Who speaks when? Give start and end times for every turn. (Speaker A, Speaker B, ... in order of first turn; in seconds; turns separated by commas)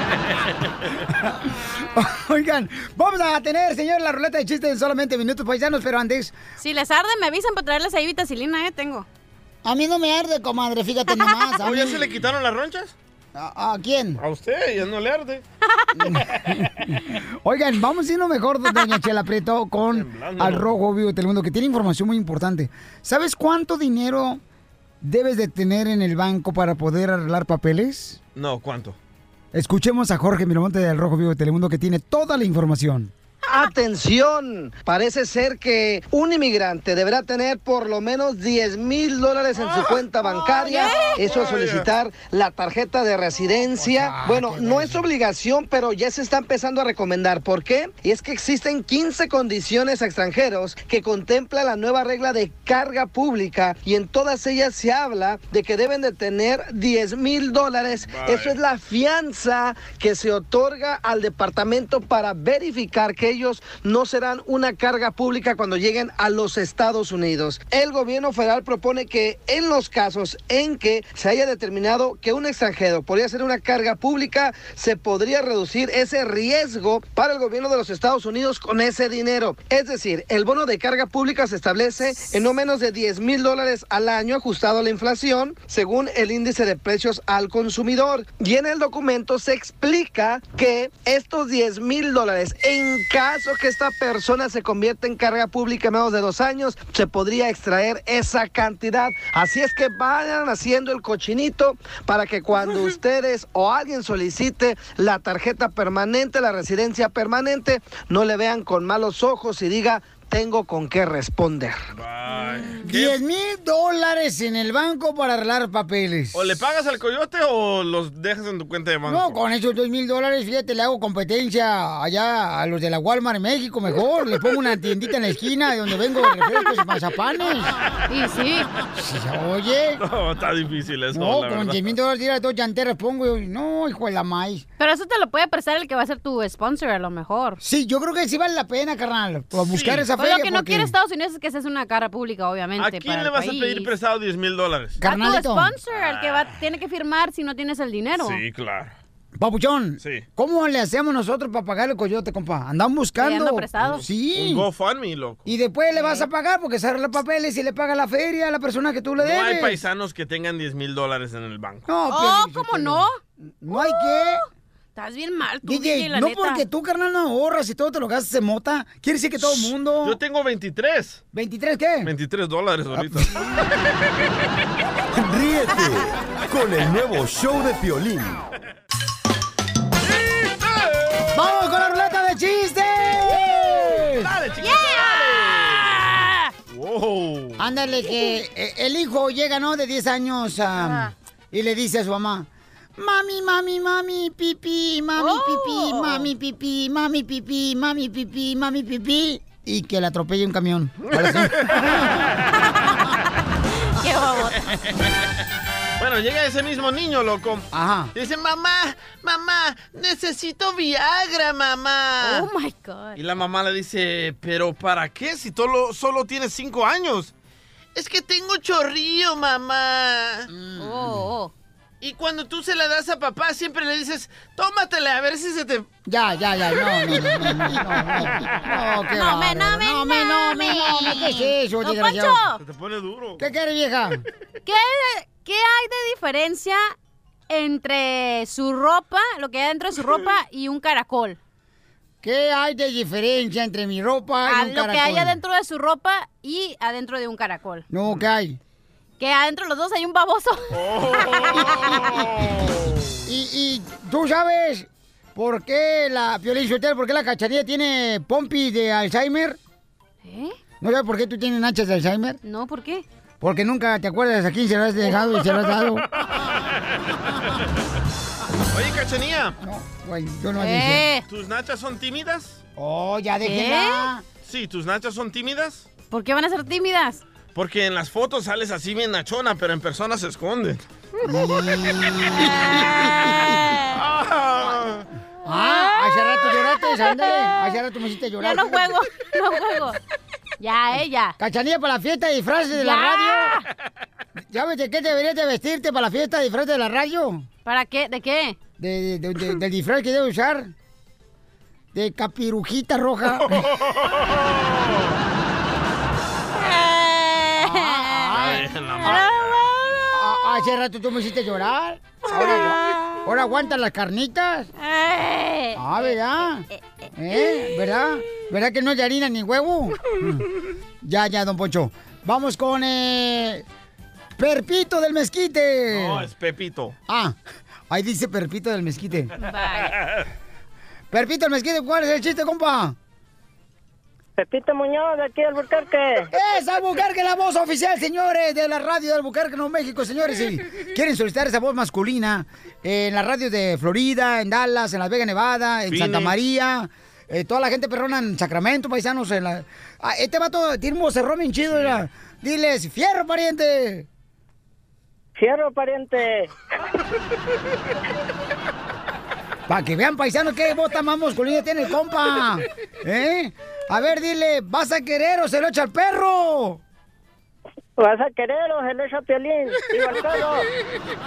Speaker A: 1.1-6.3, Speaker B: 6.6-9.1, Speaker A: 9.6-12.1, Speaker C: 11.6-12.9, Speaker A: 13.3-14.2, Speaker C: 14.2-15.4, Speaker A: 16.0-24.4, Speaker C: 19.8-20.7, Speaker A: 25.0-28.2, Speaker C: 28.3-29.0, Speaker A: 29.5-33.1, Speaker D: 33.5-111.8, Speaker C: 39.6-41.9, Speaker B: 40.7-41.1, Speaker A: 43.8-45.0, Speaker C: 58.0-58.6, Speaker C: 111.9-113.2, Speaker B: 112.3-112.8, Speaker A: 112.8-116.5, Speaker C: 116.3-119.4, Speaker A: 119.0-127.7, Speaker B: 128.1-128.7, Speaker A: 128.9-130.0, Speaker C: 130.0-131.9, Speaker A: 131.1-134.6, Speaker B: 134.8-137.6, Speaker A: 137.6-140.9, Speaker C: 139.6-140.1, Speaker B: 140.2-143.9, Speaker C: 142.8-145.0, Speaker A: 145.0-145.7, Speaker B: 145.0-148.4, Speaker C: 145.9-146.5, Speaker C: 148.2-148.9, Speaker A: 149.4-154.7, Speaker C: 150.0-150.2, Speaker B: 153.2-154.0, Speaker C: 153.8-155.4, Speaker A: 155.4-159.8, Speaker B: 155.9-156.3, Speaker C: 159.2-161.9, Speaker A: 161.9-163.1, Speaker B: 162.1-163.2, Speaker A: 163.6-164.4, Speaker B: 163.7-164.4, Speaker B: 164.9-166.6, Speaker A: 165.6-170.2, Speaker C: 169.4-171.2, Speaker A: 171.3-172.1, Speaker C: 172.0-173.7, Speaker A: 172.9-173.4, Speaker E: 175.1-178.4, Speaker A: 181.3-184.3, Speaker C: 184.1-186.1, Speaker B: 184.6-186.5, Speaker C: 186.7-187.6, Speaker A: 187.6-202.1, Speaker B: 195.2-196.3, Speaker C: 201.1-201.8, Speaker B: 204.0-204.7, Speaker C: 206.0-212.5, Speaker A: 207.7-208.1, Speaker B: 212.2-213.2, Speaker C: 213.2-217.3, Speaker C: 217.9-220.5, Speaker A: 220.5-221.2, Speaker B: 220.8-221.5, Speaker C: 222.0-225.9, Speaker A: 226.1-232.4, Speaker B: 229.1-232.6, Speaker C: 232.6-233.4, Speaker A: 233.4-234.2, Speaker B: 234.6-236.9, Speaker B: 237.5-241.4, Speaker A: 242.2-245.4, Speaker B: 244.4-247.8, Speaker A: 247.9-248.6, Speaker B: 249.2-250.8, Speaker C: 250.7-253.2, Speaker B: 251.3-252.0, Speaker A: 251.6-252.1, Speaker A: 253.2-259.6, Speaker B: 260.2-260.6, Speaker A: 260.8-262.4, Speaker B: 262.4-263.0, Speaker A: 263.4-266.1, Speaker C: 268.7-269.6, Speaker A: 269.6-271.1, Speaker B: 270.6-271.2, Speaker C: 271.3-272.6, Speaker A: 272.8-274.2, Speaker B: 273.4-274.1, Speaker C: 274.4-275.9, Speaker B: 276.1-277.2, Speaker C: 277.5-280.8, Speaker A: 281.2-283.5, Speaker C: 283.9-285.1, Speaker A: 285.4-288.9, Speaker B: 285.7-286.3, Speaker B: 286.9-287.7, Speaker B: 288.4-290.0, Speaker B: 290.6-291.4, Speaker A: 291.4-293.6, Speaker B: 292.7-293.6, Speaker A: 294.5-297.5, Speaker B: 297.6-298.6, Speaker A: 298.8-300.7, Speaker A: 301.9-303.7, Speaker C: 303.4-304.9, Speaker B: 306.6-308.3, Speaker A: 307.6-309.2, Speaker C: 308.3-309.7, Speaker B: 309.0-310.1, Speaker A: 310.1-314.7, Speaker B: 312.3-313.4, Speaker B: 314.8-316.1, Speaker A: 315.7-316.6, Speaker B: 317.0-317.7, Speaker A: 317.1-320.5, Speaker A: 321.0-323.6, Speaker A: 324.4-326.3, Speaker C: 325.9-326.9, Speaker A: 327.1-327.4, Speaker A: 327.9-329.3, Speaker B: 329.4-330.0, Speaker C: 329.9-330.2, Speaker A: 331.1-332.9, Speaker F: 334.4-336.3, Speaker A: 336.3-354.1, Speaker C: 345.9-346.3, Speaker C: 351.7-352.0, Speaker F: 355.4-356.5, Speaker A: 359.7-366.8, Speaker F: 368.0-370.7